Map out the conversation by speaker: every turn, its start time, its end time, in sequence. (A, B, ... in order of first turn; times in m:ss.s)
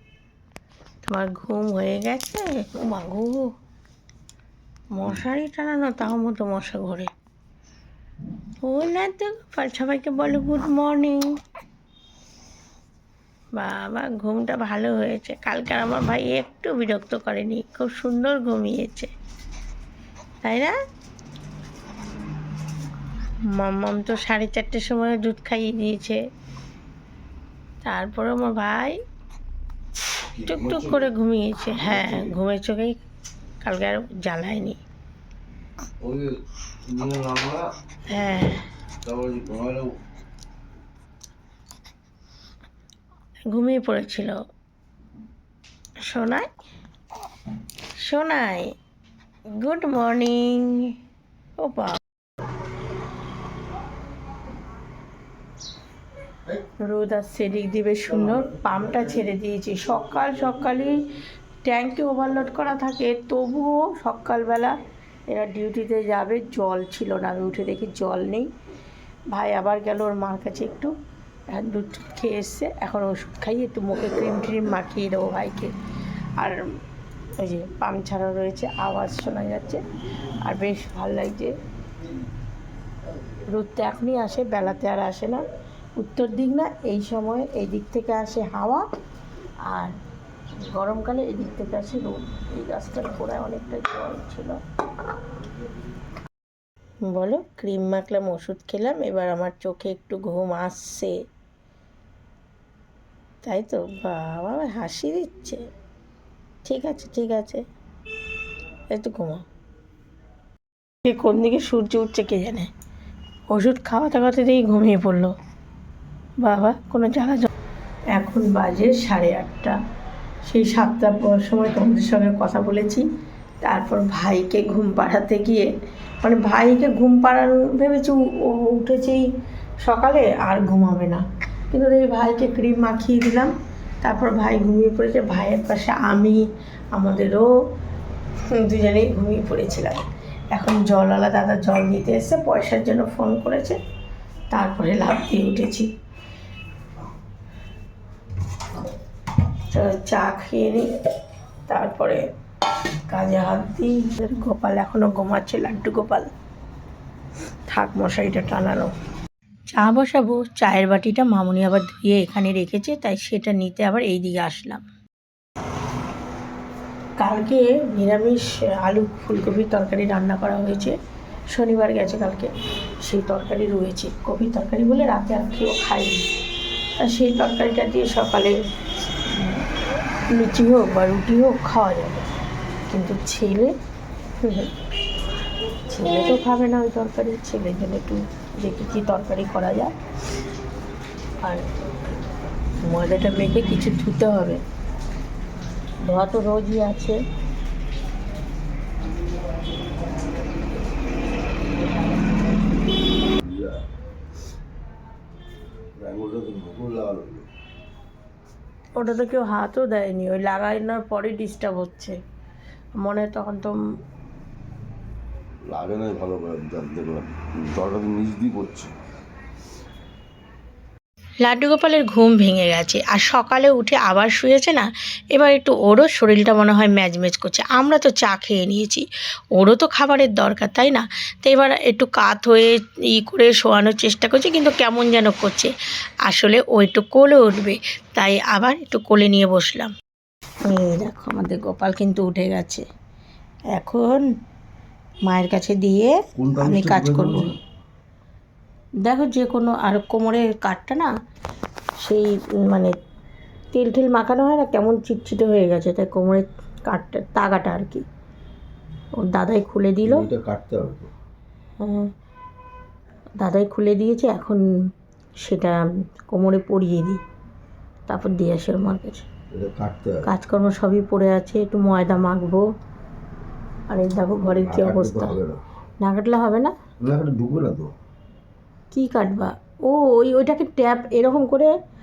0:01.0-0:03.5 A
0:04.9-0:07.1 A
0:08.6-0:11.4 A
0:13.5-0:19.1 A
0:20.4-0:20.7 A
0:23.5-0:26.2 A
0:27.8-0:29.0 A
0:30.3-0:31.0 B
0:30.4-0:33.0 A
0:31.8-0:32.3 B
0:33.6-0:34.8 A
0:36.0-0:37.7 B
0:38.1-0:38.6 A
0:39.0-0:40.0 B
0:43.5-0:44.4 A
0:46.0-0:46.5 A
0:48.0-0:48.7 A
0:49.5-0:51.0 A
0:51.6-0:52.0 A
0:56.8-1:01.0 A
1:01.6-1:04.8 A
1:05.3-1:08.5 A
1:09.3-1:10.9 A
1:11.5-1:15.7 A
1:16.4-1:16.6 A
1:17.4-1:19.8 A
1:20.4-1:21.6 A
1:23.5-1:25.4 A
1:26.0-1:28.8 A
1:29.7-1:29.9 A
1:30.6-1:34.6 A
1:37.0-1:41.2 A
1:43.4-1:45.7 A
1:46.6-1:47.6 A
1:48.9-1:49.4 A
1:51.0-1:52.7 A
1:53.5-1:55.3 A
1:56.4-1:57.5 A
1:58.1-1:59.8 A
2:00.4-2:03.0 A
2:03.6-2:09.2 A
2:09.8-2:17.5 A
2:18.5-2:23.8 A
2:24.5-2:25.9 A
2:29.7-2:30.9 A
2:31.7-2:32.2 A
2:33.1-2:36.3 A
2:37.7-2:38.9 A
2:39.7-2:44.8 A
2:47.2-2:50.9 A
2:51.5-2:56.2 A
2:57.0-2:58.6 A
2:59.3-2:59.6 A
3:00.3-3:02.2 A
3:02.9-3:03.7 A
3:04.4-3:04.7 A
3:05.9-3:09.9 A
3:11.4-3:11.7 A
3:12.8-3:14.6 A
3:16.0-3:17.2 A
3:23.4-3:23.8 B
3:26.0-3:27.5 B
3:29.0-3:32.2 A
3:33.0-3:33.8 A
3:35.7-3:38.9 B
3:41.4-3:55.7 A
3:56.2-3:59.9 A
4:00.6-4:02.8 A
4:03.7-4:04.3 A
4:05.2-4:07.5 A
4:06.4-4:07.5 B
4:09.0-4:11.1 A
4:12.0-4:12.9 A
4:13.7-4:18.0 A
4:19.2-4:20.3 A
4:20.0-4:21.1 B
4:21.8-4:22.1 A
4:23.4-4:24.7 A
4:25.4-4:27.2 A
4:28.1-4:29.2 A
4:29.5-4:30.3 B
4:30.2-4:32.6 A
4:33.9-4:35.4 A
4:34.4-4:35.6 B
4:36.0-4:36.7 A
4:37.0-4:37.9 B
4:38.9-4:41.7 A